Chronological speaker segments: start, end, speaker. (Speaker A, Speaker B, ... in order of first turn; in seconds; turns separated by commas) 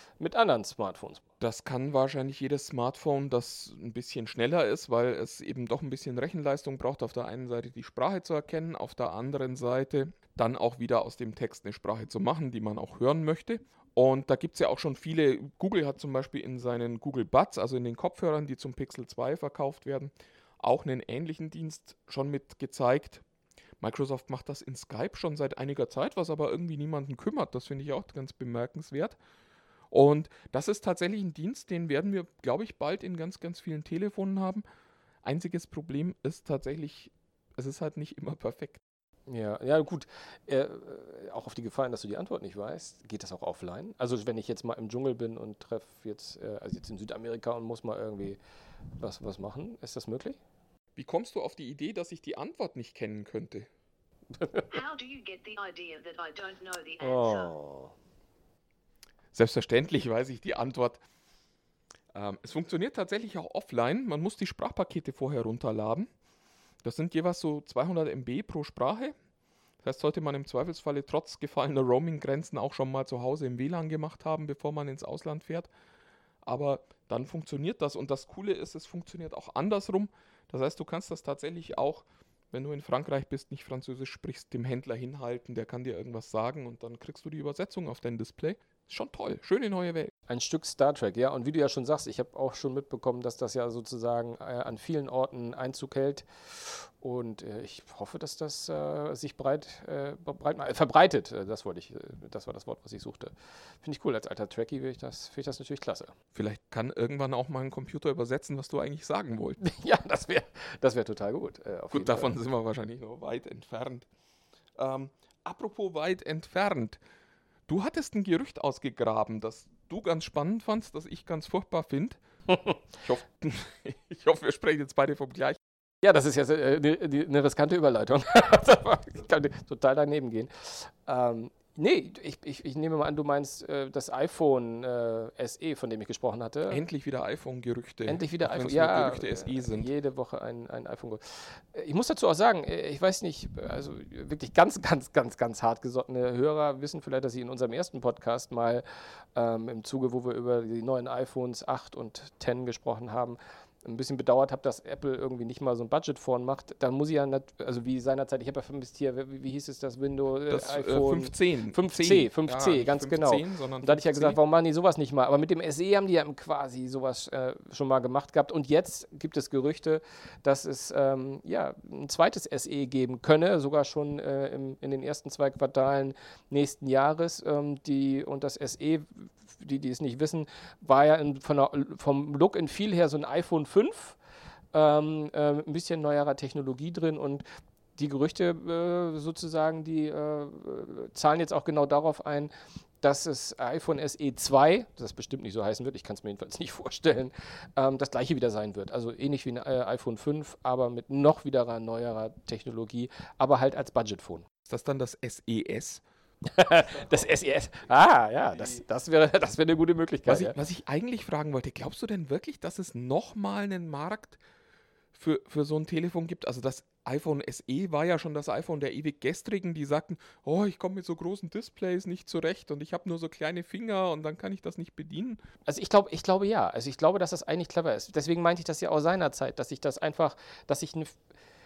Speaker A: 0.2-1.2, Speaker B: 1.4-23.2, Speaker B: 23.8-29.2, Speaker B: 29.9-34.6, Speaker B: 35.2-38.8, Speaker A: 39.3-48.4, Speaker A: 49.0-50.4, Speaker B: 51.0-53.7, Speaker A: 54.4-54.7, Speaker C: 54.7-57.5, Speaker A: 57.0-57.9, Speaker B: 59.3-61.0, Speaker B: 62.1-66.1, Speaker B: 66.8-69.2, Speaker B: 69.8-75.7, Speaker B: 76.4-90.1, Speaker A: 90.3-106.1, Speaker B: 106.3-109.6, Speaker A: 109.6-112.3, Speaker B: 111.9-114.1, Speaker B: 114.8-117.0, Speaker B: 117.7-122.2, Speaker B: 123.0-125.6, Speaker A: 126.0-136.8, Speaker B: 136.7-139.9, Speaker A: 138.1-184.2, Speaker B: 160.5-164.4, Speaker A: 184.7-187.4, Speaker A: 187.9-204.4, Speaker B: 204.7-206.0, Speaker A: 206.4-210.6, Speaker B: 210.3-214.4, Speaker B: 215.1-225.4, Speaker A: 225.7-231.2